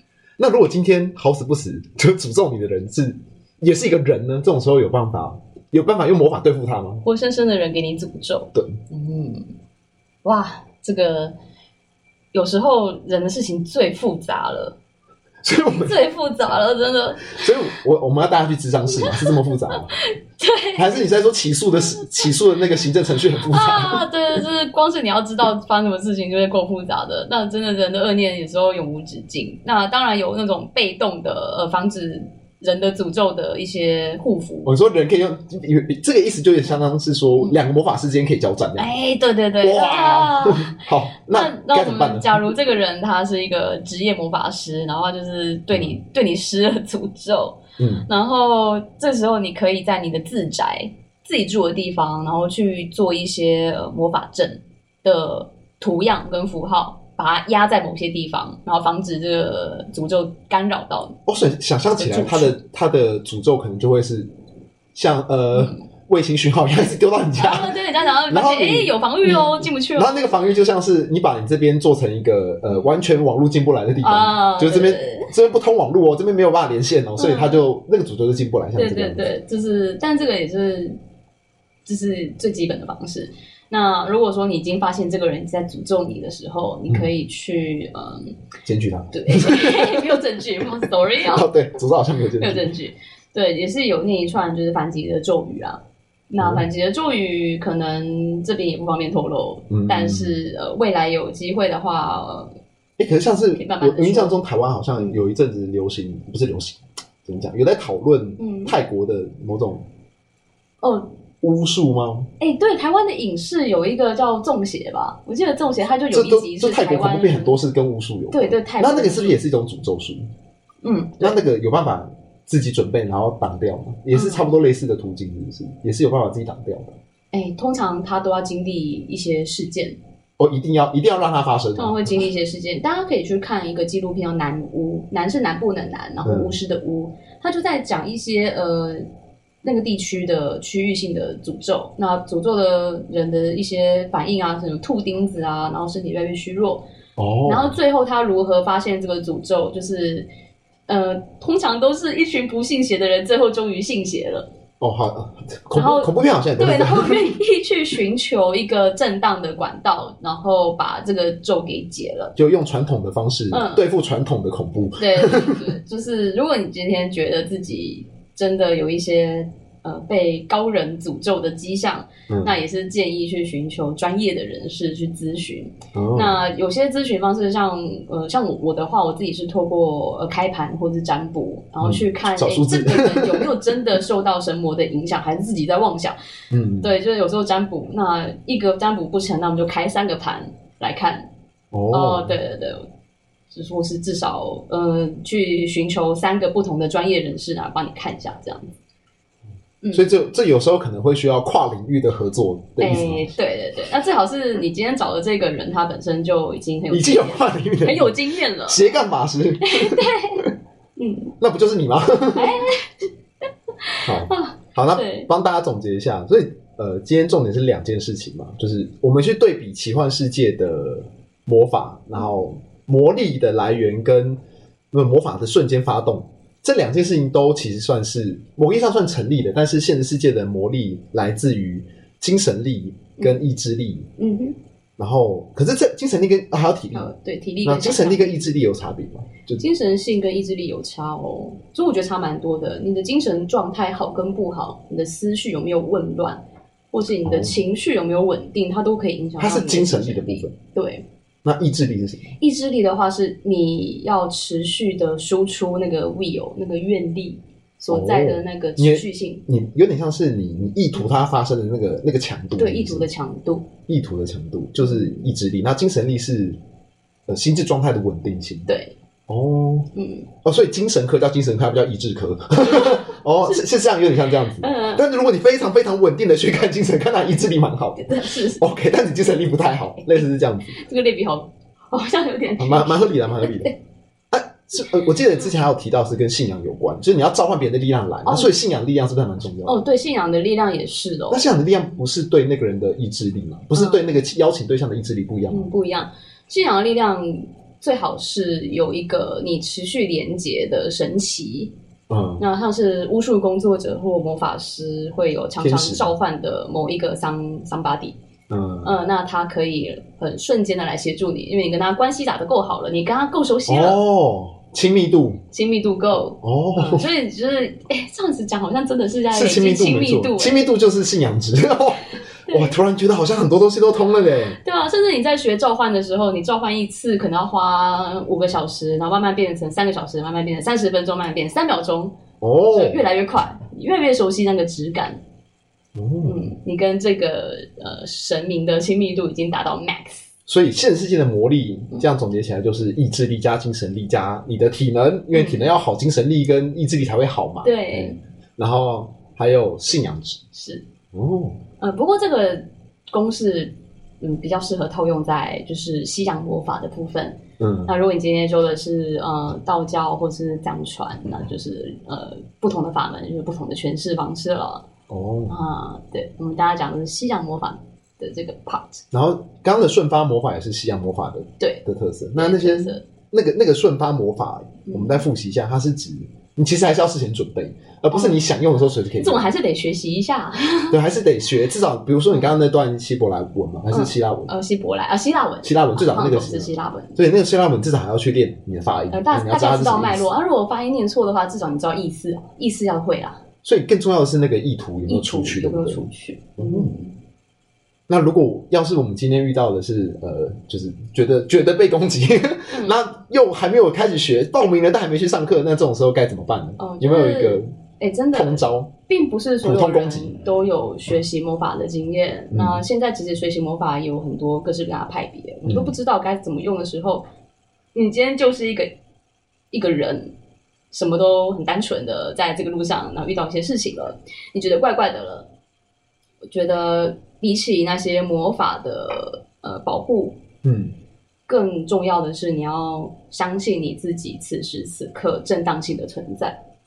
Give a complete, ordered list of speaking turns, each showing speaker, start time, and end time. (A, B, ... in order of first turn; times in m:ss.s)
0:00.4-0:07.0 A
0:07.0-0:09.5 B
0:08.5-0:08.8 A
0:10.2-0:11.3 B
0:12.3-0:14.8 B
0:15.4-0:16.0 A
0:15.7-0:17.5 B
0:17.3-0:20.0 A
0:19.0-0:19.4 B
0:20.0-0:21.0 B
0:20.7-0:24.0 A
0:23.5-0:34.7 B
0:34.6-0:39.0 A
0:38.8-1:01.2 B
0:39.6-0:42.5 A
0:45.7-0:46.0 A
0:47.8-0:48.1 A
1:01.2-1:04.3 A
1:01.9-1:02.6 B
1:04.9-1:07.7 A
1:05.5-1:05.8 B
1:07.4-1:10.2 B
1:08.3-1:19.3 A
1:14.0-1:15.3 B
1:17.2-1:17.6 B
1:18.8-1:21.0 B
1:21.8-1:28.4 B
1:28.6-1:30.0 A
1:29.1-1:31.5 B
1:31.2-1:32.7 A
1:32.4-1:42.5 B
1:36.4-1:36.6 A
1:39.7-1:40.4 A
1:43.0-1:49.8 A
1:43.5-1:44.4 B
1:48.4-1:48.7 B
1:50.8-1:51.1 B
1:51.4-1:52.3 A
1:52.4-1:57.6 B
1:56.1-2:00.2 A
1:58.3-1:59.4 B
2:00.8-2:01.4 B
2:01.2-2:07.0 A
2:04.1-2:04.4 B
2:07.3-2:10.0 B
2:10.4-2:12.1 A
2:11.8-2:19.0 B
2:16.2-2:16.6 A
2:19.6-2:26.8 B
2:27.2-2:27.8 A
2:27.4-2:30.3 B
2:30.9-2:34.5 B
2:34.8-2:37.3 A
2:35.7-2:42.3 B
2:42.4-2:45.7 A
2:43.5-2:43.8 B
2:44.9-3:06.2 B
2:52.3-2:52.6 A
2:55.9-2:56.4 A
3:01.8-3:03.5 A
3:06.5-3:06.9 A
3:06.8-3:11.3 B
3:11.7-3:12.4 A
3:11.9-3:12.9 B
3:13.5-3:18.7 B
3:19.8-3:20.1 B
3:19.9-3:23.3 A
3:22.8-3:28.9 B
3:26.9-3:30.5 A
3:29.6-3:30.4 B
3:31.0-3:31.3 B
3:31.4-3:32.6 A
3:32.3-3:33.0 B
3:33.8-3:35.3 B
3:34.0-3:44.4 A
3:44.9-3:54.1 A
3:54.2-3:54.6 B
3:55.0-3:57.1 A
3:56.9-3:58.4 B
3:57.6-3:59.6 A
3:59.6-4:06.4 B
4:06.9-4:11.0 B
4:07.2-4:07.6 A
4:09.4-4:10.5 A
4:11.4-4:12.4 A
4:12.4-4:19.4 B
4:17.9-4:23.1 A
4:22.6-4:23.7 B
4:23.9-4:26.6 A
4:24.8-4:25.3 B
4:27.3-4:28.7 A
4:28.7-4:28.9 B
4:29.3-4:29.9 A
4:29.9-4:30.3 B
4:30.4-4:40.8 A
4:32.6-4:33.6 B
4:34.6-4:35.0 B
4:38.0-4:38.6 B
4:40.1-4:43.7 B
4:42.6-4:43.8 A
4:44.3-4:49.8 A
4:48.2-4:48.5 B
4:49.6-4:51.5 B
4:51.3-4:55.7 A
4:53.7-4:54.0 B
4:55.5-5:01.7 B
5:02.1-5:02.4 A
5:02.4-5:08.2 B
5:05.6-5:06.1 A
5:08.5-5:09.0 A
5:08.8-5:14.0 B
5:13.7-5:15.4 A
5:15.5-5:20.6 B
5:16.4-5:17.1 A
5:19.3-5:24.6 A
5:22.5-5:22.8 B
5:24.0-5:32.2 B
5:32.4-5:33.0 A
5:32.7-5:35.2 B
5:35.9-5:36.5 A
5:36.2-5:40.3 B
5:40.5-5:50.4 A
5:45.3-5:45.7 B
5:47.6-5:48.2 B
5:50.5-5:50.8 B
5:51.1-5:51.6 A
5:51.8-6:04.8 B
5:57.6-5:57.9 A
6:05.1-6:05.6 A
6:05.5-6:09.0 B
6:09.1-6:19.5 A
6:12.3-6:13.0 B
6:14.9-6:15.2 B
6:18.1-6:18.4 B
6:19.2-6:21.0 B
6:20.9-6:24.5 A
6:23.9-6:27.2 B
6:25.6-6:30.3 A
6:29.1-6:33.4 B
6:33.6-6:36.9 A
6:35.1-6:37.1 B
6:38.1-6:47.7 A
6:42.7-6:43.0 B
6:46.8-6:57.2 B
6:48.3-6:48.9 A
6:49.6-6:50.4 A
6:52.5-6:52.8 A
6:55.6-6:55.9 A
6:57.9-6:58.9 B
6:59.7-7:00.3 B
7:00.9-7:05.5 B
7:06.5-7:10.4 B
7:10.6-7:10.9 A
7:11.5-7:16.6 B